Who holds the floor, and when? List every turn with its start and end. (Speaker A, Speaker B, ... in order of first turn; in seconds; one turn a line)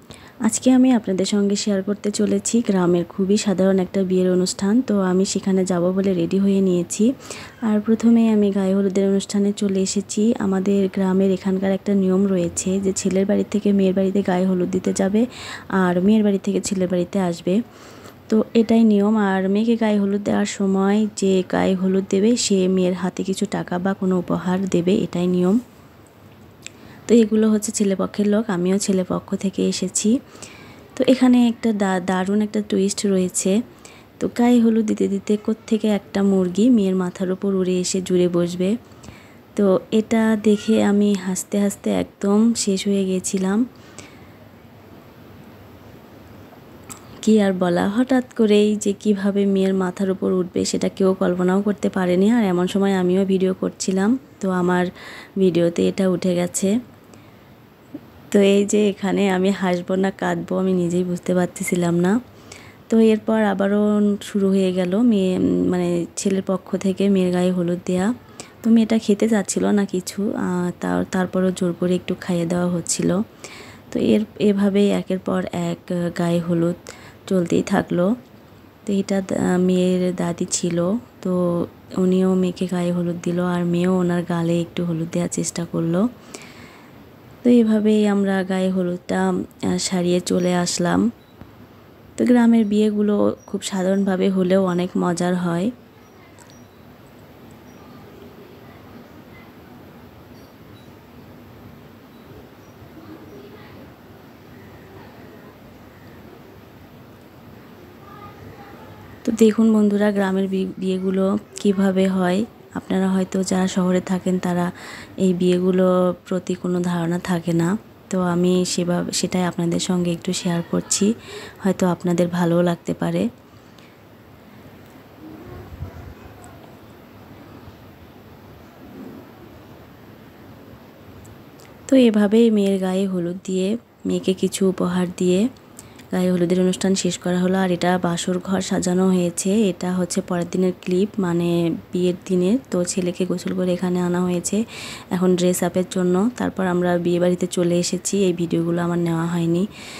Speaker A: 0.5-7.1
Speaker A: 7.7-15.2
Speaker A: 15.8-17.6
Speaker A: 18.3-25.6
Speaker A: 27.1-30.1
Speaker A: 31.0-33.5
Speaker A: 34.2-38.7
Speaker A: 39.5-43.6
Speaker A: 47.2-56.7
Speaker A: 58.3-62.2
Speaker A: 62.9-68.1
Speaker A: 68.6-73.2
Speaker A: 73.9-76.8
Speaker A: 77.3-78.1
Speaker A: 78.9-86.0
Speaker A: 87.4-91.0
Speaker A: 92.2-95.7
Speaker A: 109.2-114.7
Speaker A: 115.2-121.1
Speaker A: 121.6-123.3
Speaker A: 131.9-135.4
Speaker A: 136.1-144.6
Speaker A: 145.1-149.7